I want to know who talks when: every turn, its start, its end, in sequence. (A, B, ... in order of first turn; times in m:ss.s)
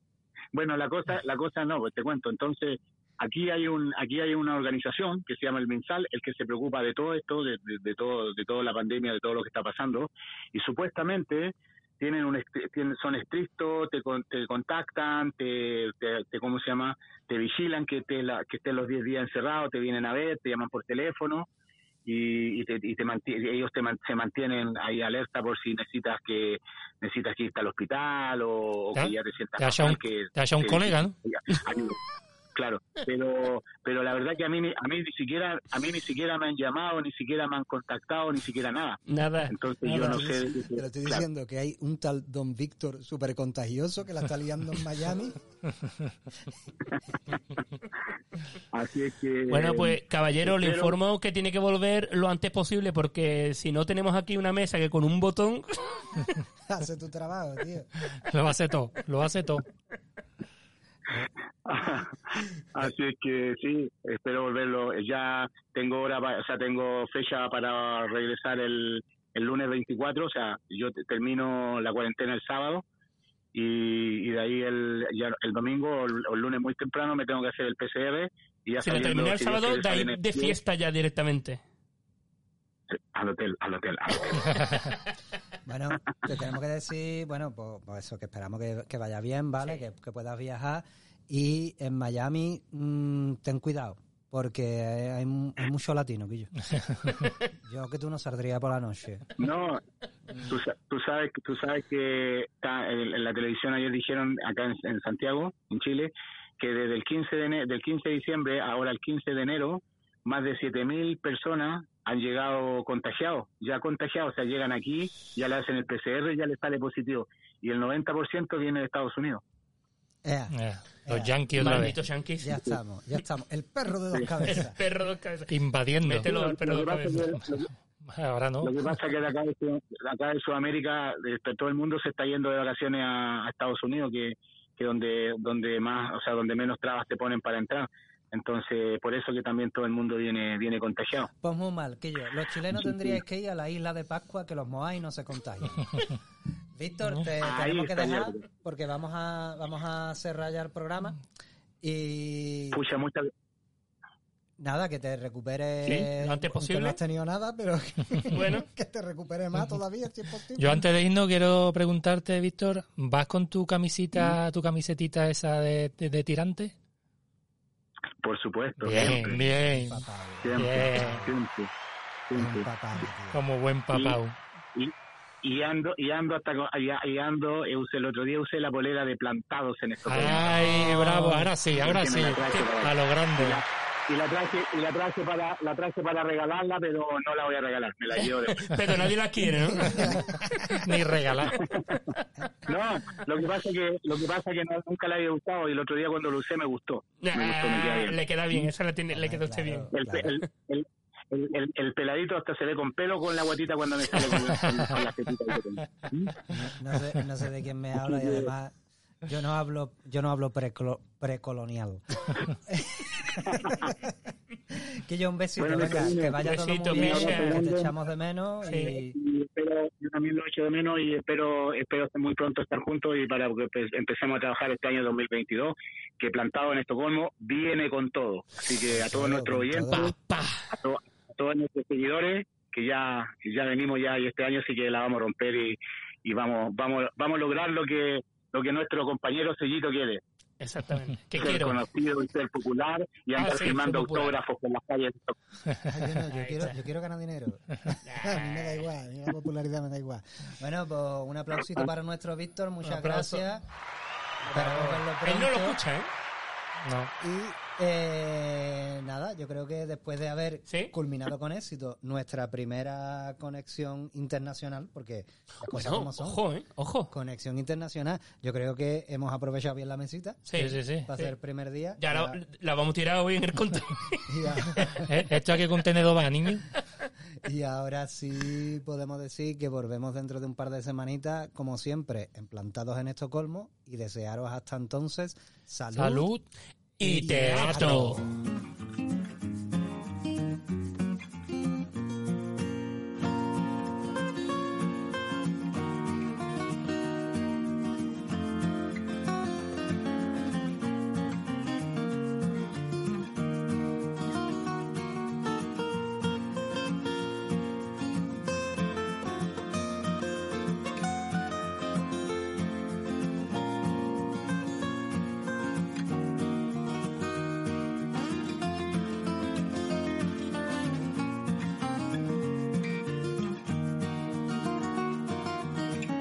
0:00.5-0:21.5 A
0:22.0-0:32.0 A
0:28.9-0:31.1 B
0:32.6-0:41.2 A
0:39.1-0:39.5 C
0:39.8-0:45.4 D
0:48.7-0:51.0 A
0:49.5-0:56.3 C
0:56.7-0:57.9 D
0:58.2-0:59.6 B
1:01.6-1:12.8 A
1:13.5-1:20.6 A
1:18.8-1:21.6 C
1:23.1-1:24.9 A
1:25.6-1:36.5 D
1:37.5-1:39.3 D
1:39.4-1:39.8 A
1:40.4-1:59.4 A
2:00.2-2:00.6 D
2:00.5-2:01.9 B
2:01.0-2:01.9 D
2:01.6-2:02.6 C
2:02.4-2:04.8 D
2:04.4-2:07.4 C
2:05.5-2:06.3 B
2:06.2-2:07.7 A
2:08.0-2:08.8 B
2:08.6-2:21.3 A
2:21.4-2:26.1 D
2:22.9-2:23.2 A
2:26.7-2:31.2 D
2:27.4-2:28.4 A
2:31.8-2:32.8 D
2:32.7-2:33.3 A
2:34.6-2:40.8 D
2:35.8-2:37.0 C
2:38.3-2:38.7 C
2:40.6-2:46.7 B
2:48.2-2:49.4 A
2:48.8-2:51.3 B
2:49.3-2:51.3 D
2:50.4-2:51.7 A
2:52.3-2:52.7 A
2:52.3-2:53.4 D
2:53.3-2:54.4 B
2:54.7-3:01.1 A
3:00.0-3:03.6 B
3:01.7-3:08.7 A
3:08.5-3:10.2 C
3:09.7-3:10.9 D
3:10.8-3:11.6 B
3:11.5-3:11.9 A
3:12.7-3:18.2 A
3:17.2-3:19.9 C
3:19.1-3:20.3 D
3:19.9-3:26.4 A
3:26.5-3:34.2 D
3:28.0-3:28.5 A
3:33.4-3:33.9 A
3:34.7-3:39.2 D
3:35.6-3:37.9 A
3:36.3-3:37.6 C
3:38.6-3:38.9 C
3:38.9-3:50.1 A
3:48.9-3:50.1 D
3:49.9-3:50.7 C
3:50.7-4:00.2 A
4:00.6-4:01.8 C
4:01.4-4:05.3 A
4:03.4-4:04.4 C
4:05.9-4:13.6 D
4:06.3-4:06.8 C
4:08.0-4:08.9 C
4:12.8-4:13.4 C
4:14.4-4:16.1 C
4:14.5-4:15.8 D
4:16.8-4:17.1 B
4:17.2-4:26.4 D
4:20.7-4:20.9 C
4:25.6-4:27.1 C
4:27.1-4:30.4 D
4:30.4-4:31.3 C
4:30.6-4:31.1 B
4:31.0-4:32.4 D
4:32.0-4:35.0 C
4:34.3-4:34.9 D
4:35.0-4:36.7 B
4:37.4-4:46.3 D
4:45.9-4:46.4 B
4:47.0-4:48.2 C
4:47.0-4:48.3 D
4:47.1-4:48.2 B